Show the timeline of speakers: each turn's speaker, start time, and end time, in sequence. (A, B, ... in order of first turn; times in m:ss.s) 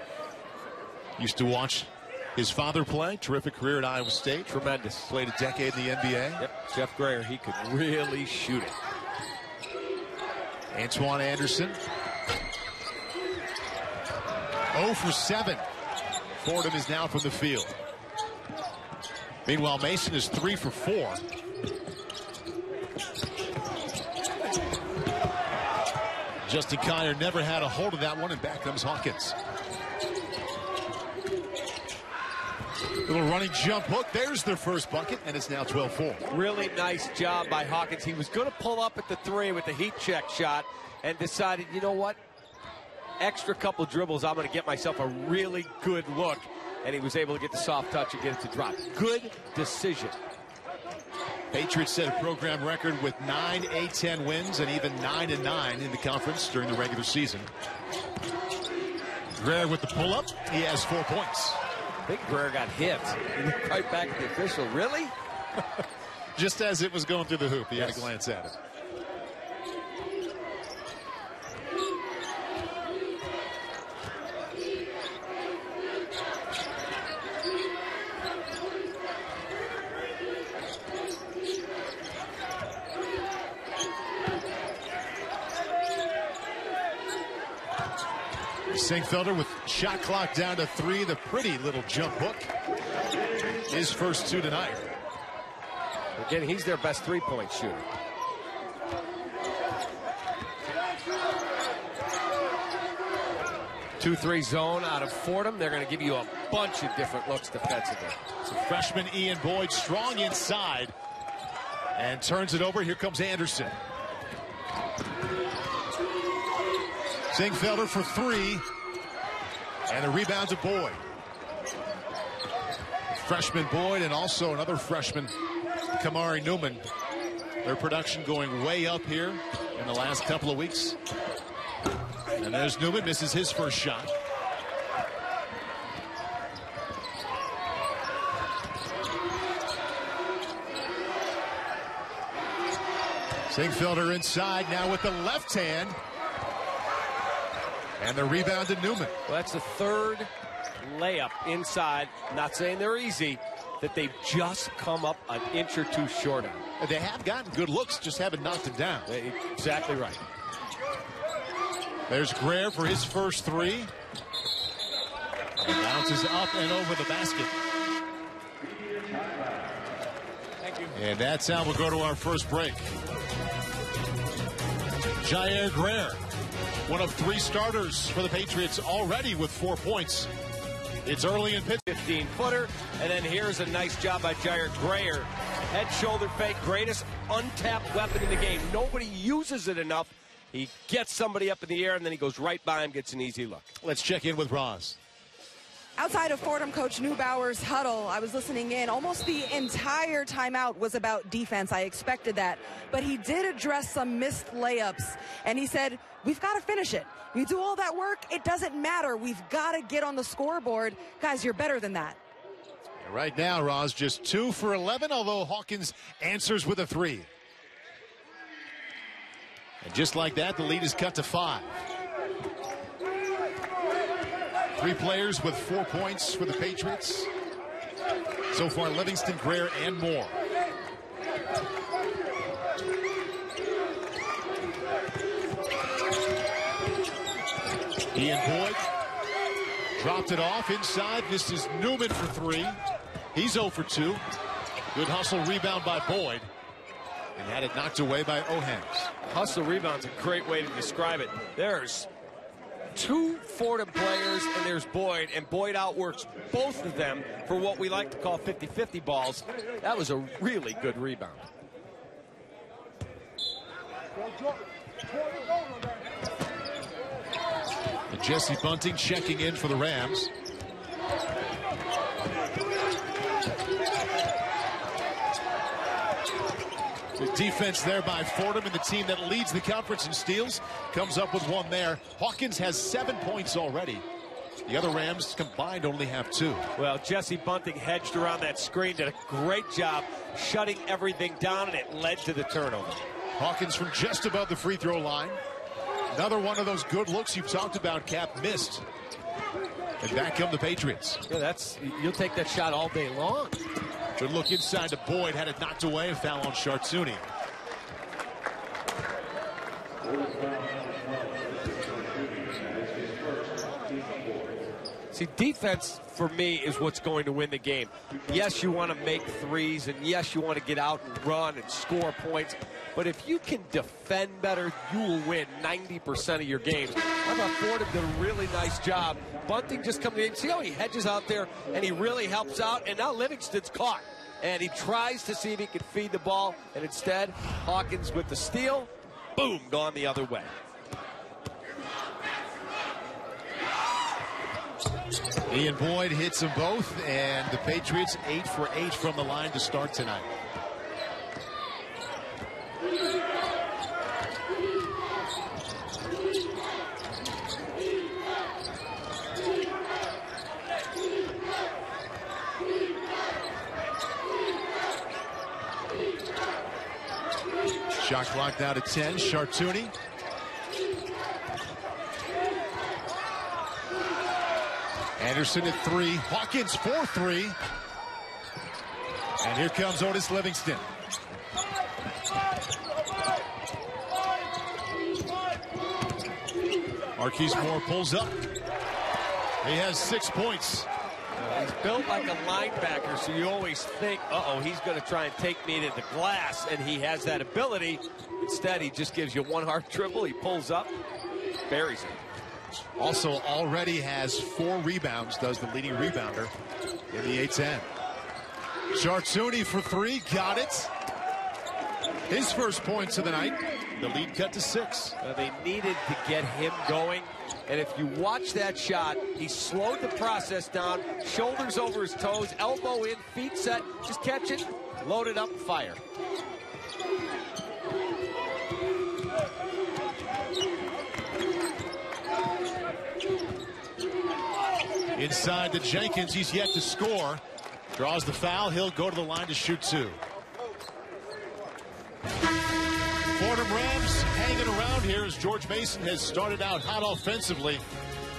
0:01.2-0:06.4 A
0:04.5-0:05.1 B
0:06.4-0:08.7 B
0:10.7-0:11.8 A
0:14.7-0:15.6 A
0:16.4-0:17.7 A
0:19.4-0:21.2 A
0:26.4-0:29.3 A
0:33.0-0:36.2 A
0:36.3-0:42.2 B
0:43.2-0:50.2 B
0:51.5-0:57.5 A
0:59.4-1:01.6 A
1:02.1-1:05.1 B
1:06.4-1:08.5 A
1:07.8-1:08.1 B
1:28.7-1:32.5 A
1:33.7-1:34.9 A
1:36.2-1:37.8 B
1:44.0-1:48.2 B
1:48.4-1:50.9 A
1:52.0-1:53.8 A
1:57.3-1:58.6 A
1:59.9-2:01.0 A
2:03.1-2:05.3 A
2:05.9-2:06.8 A
2:07.6-2:11.0 A
2:12.4-2:14.1 A
2:23.5-2:26.0 A
2:28.0-2:29.2 A
2:29.3-2:36.6 B
2:36.8-2:39.1 A
2:39.1-2:40.2 B
2:42.1-2:43.9 A
2:45.6-2:47.5 A
2:50.9-2:52.9 A
2:55.2-2:56.2 A
2:56.8-3:00.3 A
3:01.0-3:01.8 A
3:01.9-3:13.7 B
3:13.8-3:15.0 A
3:16.0-3:32.2 C
3:33.0-3:37.3 A
3:39.8-3:41.8 A
3:44.8-3:47.3 A
3:48.5-3:50.3 A
3:58.1-3:58.8 A
4:00.0-4:02.8 A
4:03.3-4:04.2 A
4:04.9-4:06.5 A
4:07.4-4:09.1 A
4:09.2-4:12.1 B
4:12.9-4:21.4 B
4:28.1-4:30.3 A
4:37.2-4:44.0 A
4:44.6-4:46.7 A
4:46.8-4:53.0 B
4:53.4-4:55.4 A
4:56.1-4:58.8 A
5:00.0-5:01.2 A
5:01.3-5:03.6 B
5:04.2-5:07.2 A
5:15.1-5:40.5 B
5:45.5-5:50.3 A
6:08.0-6:09.9 A
6:15.2-6:17.6 A
6:19.4-6:20.8 A
6:27.2-6:28.5 A
6:29.6-6:30.9 A
6:31.4-6:40.9 B
6:41.6-6:42.2 B
6:43.0-6:46.5 A
6:47.1-6:47.9 A
6:48.9-6:50.9 A
6:52.3-6:55.2 A
6:55.2-7:06.0 B
7:15.1-7:17.4 A
7:17.9-7:20.2 A
7:23.3-7:27.8 A